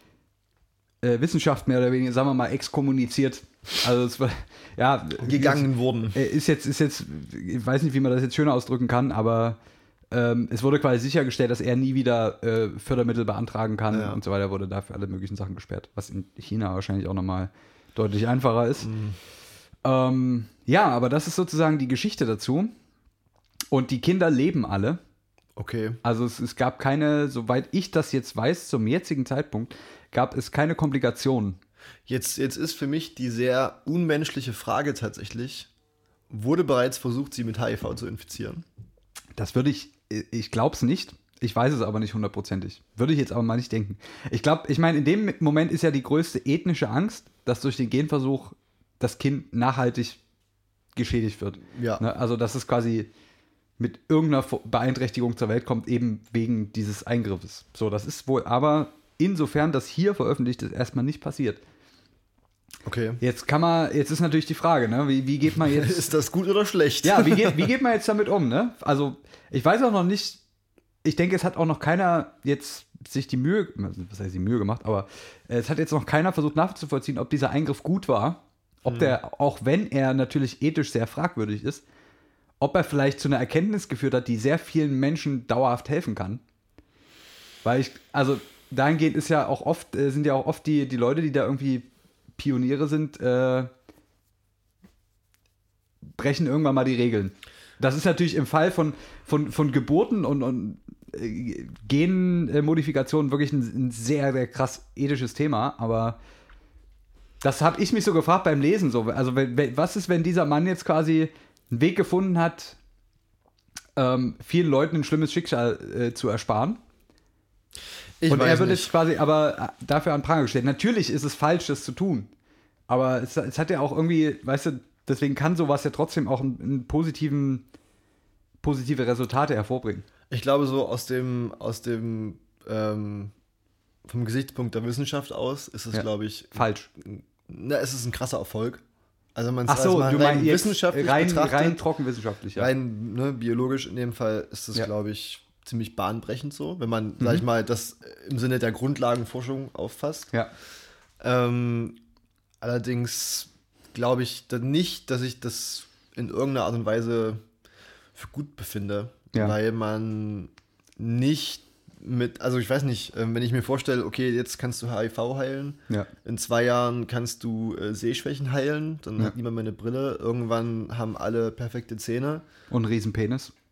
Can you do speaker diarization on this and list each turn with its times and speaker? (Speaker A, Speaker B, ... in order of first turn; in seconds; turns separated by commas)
Speaker A: 1.0-9.6, Speaker B: 5.2-6.2, Speaker A: 10.1-18.9, Speaker B: 13.9-14.2, Speaker B: 18.8-19.2, Speaker A: 19.9-22.7, Speaker A: 23.7-25.0, Speaker B: 25.6-26.0, Speaker A: 26.0-31.6, Speaker B: 32.1-35.7, Speaker B: 36.3-38.6, Speaker A: 39.4-50.2, Speaker A: 51.0-53.1, Speaker B: 51.7-52.0, Speaker A: 53.8-61.6, Speaker B: 62.9-63.2, Speaker A: 63.2-66.1, Speaker B: 65.6-67.7, Speaker A: 67.0-70.4, Speaker A: 71.0-81.8, Speaker B: 78.9-79.2, Speaker A: 82.6-86.4, Speaker A: 87.6-93.7, Speaker A: 96.2-106.2, Speaker A: 107.4-112.8, Speaker A: 114.0-116.8, Speaker B: 118.2-118.9, Speaker A: 118.3-122.3, Speaker A: 122.9-127.7, Speaker A: 128.6-130.1, Speaker B: 130.3-133.3, Speaker B: 134.1-138.8, Speaker A: 135.9-136.9, Speaker B: 139.3-141.8, Speaker A: 139.7-142.7, Speaker B: 142.6-150.3, Speaker B: 151.2-152.0, Speaker B: 152.6-157.4, Speaker B: 158.2-172.5, Speaker A: 172.7-173.5